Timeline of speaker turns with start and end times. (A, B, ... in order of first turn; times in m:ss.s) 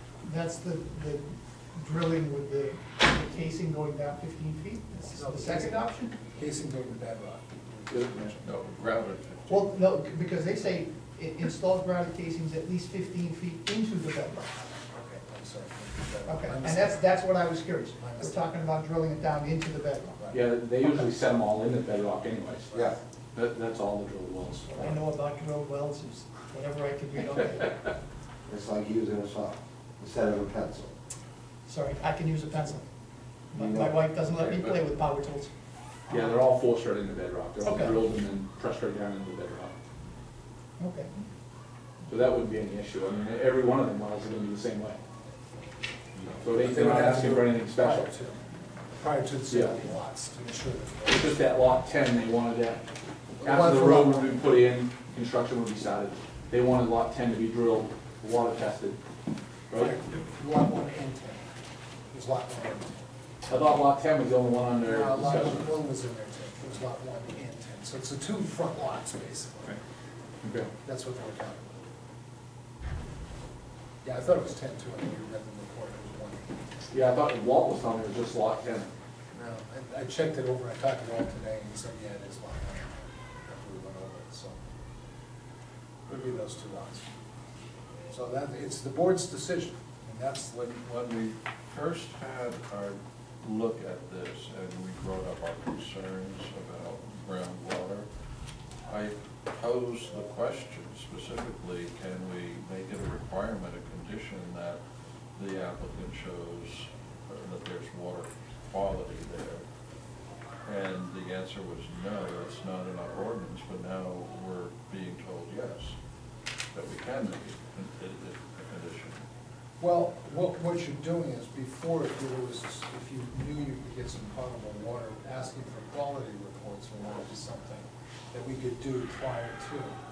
0:00.2-0:06.1 A
0:05.1-0:08.5 B
0:07.9-0:08.3 C
0:08.4-0:09.7 D
0:09.5-0:14.5 A
0:14.9-0:17.0 B
0:16.3-0:20.4 A
0:18.0-0:18.4 B
0:20.3-0:22.8 C
0:22.7-0:23.0 E
0:23.3-0:25.0 C
0:24.7-0:27.8 A
0:28.5-0:30.9 E
0:31.6-0:32.9 A
0:33.5-0:33.9 E
0:33.5-0:35.5 A
0:36.1-0:36.3 A
0:36.1-0:39.7 C
0:37.6-0:38.0 A
0:40.8-0:41.1 A
0:42.1-0:45.0 C
0:46.4-0:48.1 C
0:46.6-0:48.4 B
0:49.0-0:51.4 B
0:49.5-0:49.8 C
0:51.1-0:52.8 C
0:53.4-0:54.4 B
0:53.4-0:59.0 C
0:59.7-1:00.0 C
0:59.8-1:01.5 B
1:02.1-1:03.0 B
1:03.5-1:05.7 C
1:04.8-1:09.8 B
1:10.4-1:10.7 C
1:10.8-1:11.8 B
1:14.0-1:16.6 B
1:16.9-1:18.9 C
1:19.3-1:24.6 B
1:26.1-1:27.1 B
1:28.1-1:30.8 B
1:30.8-1:38.1 D
1:38.8-1:44.8 D
1:45.4-1:49.6 D
1:50.6-1:56.0 D
1:56.7-1:59.2 D
1:59.8-2:10.0 B